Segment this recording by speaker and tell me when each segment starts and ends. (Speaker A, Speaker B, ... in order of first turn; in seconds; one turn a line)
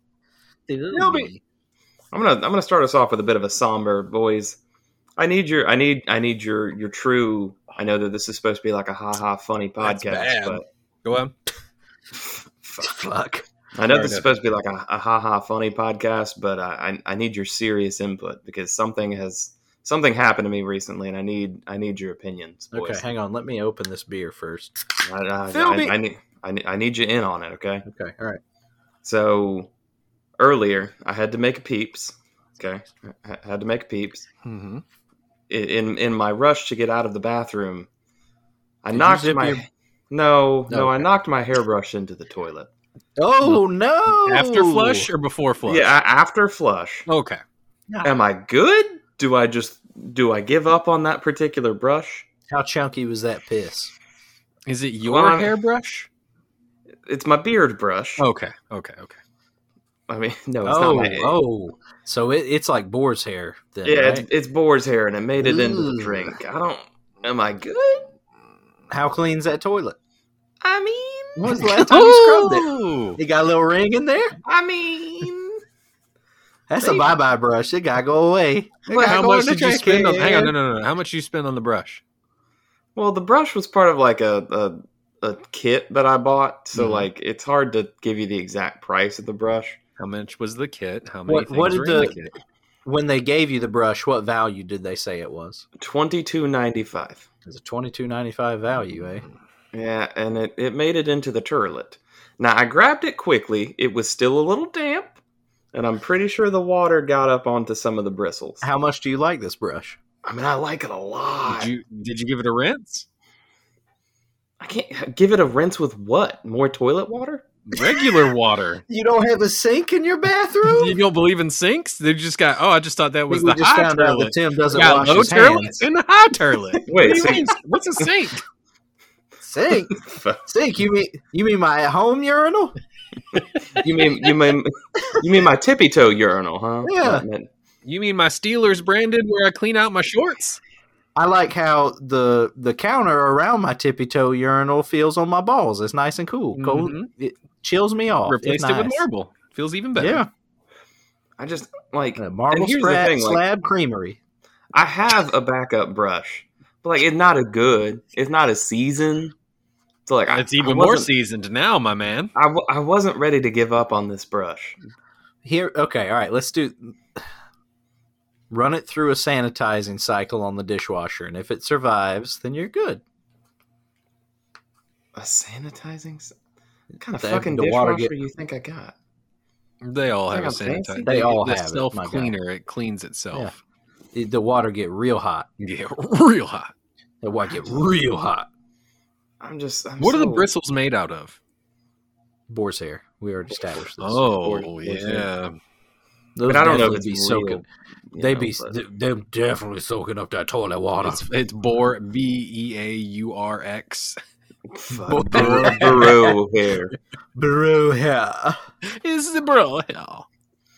Speaker A: 0.7-1.4
Speaker B: 0.9-1.3
Speaker C: 2.1-4.6
Speaker C: 5.2-10.6
Speaker B: 9.8-11.3
Speaker C: 12.2-12.9
Speaker A: 12.8-13.5
Speaker C: 13.7-23.0
Speaker B: 13.8-14.3
Speaker A: 22.7-24.8
Speaker C: 25.0-27.9
Speaker A: 25.5-25.9
Speaker A: 27.9-28.4
Speaker C: 29.0-29.7
Speaker C: 30.4-34.2
Speaker B: 34.4-34.8
Speaker C: 35.5-37.9
Speaker C: 38.8-42.7
Speaker A: 38.9-39.6
Speaker A: 40.7-41.1
Speaker A: 43.2-45.1
Speaker B: 43.4-45.9
Speaker C: 45.6-47.1
Speaker B: 47.1-47.4
Speaker C: 48.0-52.3
Speaker A: 52.5-53.9
Speaker B: 54.7-56.1
Speaker C: 55.0-55.5
Speaker C: 57.0-58.2
Speaker B: 58.2-59.2
Speaker C: 60.1-61.3
Speaker A: 60.6-64.2
Speaker C: 63.8-68.1
Speaker A: 65.4-66.3
Speaker A: 68.9-70.0
Speaker C: 70.6-71.8
Speaker A: 71.4-74.3
Speaker B: 71.5-73.2
Speaker C: 74.4-75.6
Speaker A: 76.7-80.0
Speaker C: 76.8-77.2
Speaker C: 78.9-80.5
Speaker B: 79.0-82.0
Speaker C: 83.0-89.8
Speaker B: 86.7-87.1
Speaker B: 90.0-92.3
Speaker A: 91.3-92.2
Speaker A: 92.8-95.6
Speaker C: 95.8-97.3
Speaker A: 97.4-99.2
Speaker C: 99.7-105.2
Speaker C: 105.7-108.7
Speaker A: 108.6-110.0
Speaker C: 110.2-111.7
Speaker B: 111.4-113.0
Speaker C: 114.6-117.5
Speaker B: 117.7-118.8
Speaker A: 118.9-121.0
Speaker B: 120.6-128.4
Speaker A: 123.3-125.8
Speaker C: 126.9-128.0
Speaker A: 129.4-132.7
Speaker C: 129.9-130.4
Speaker C: 133.7-137.5
Speaker A: 136.8-137.2
Speaker B: 137.8-140.6
Speaker A: 141.2-149.0
Speaker B: 146.5-147.1
Speaker B: 148.3-150.2
Speaker A: 149.9-150.3
Speaker C: 151.4-153.4
Speaker A: 152.2-154.2
Speaker C: 154.7-159.3
Speaker C: 160.1-161.1
Speaker B: 160.3-162.3
Speaker C: 162.3-164.8
Speaker A: 165.4-167.3
Speaker A: 168.5-173.0
Speaker C: 175.1-176.3
Speaker C: 177.0-178.9
Speaker A: 177.2-178.1
Speaker B: 179.8-183.5
Speaker C: 180.3-181.3
Speaker A: 181.0-182.3
Speaker A: 184.1-185.5
Speaker B: 185.6-186.7
Speaker A: 187.2-188.5
Speaker C: 189.4-190.5
Speaker B: 190.0-191.4
Speaker A: 192.5-194.2
Speaker B: 194.0-195.5
Speaker C: 194.3-195.3
Speaker A: 196.3-197.6
Speaker C: 196.4-198.8
Speaker A: 198.2-201.2
Speaker B: 201.0-204.2
Speaker C: 204.7-206.9
Speaker A: 205.0-206.3
Speaker B: 205.3-206.3
Speaker A: 207.3-208.6
Speaker B: 208.8-210.2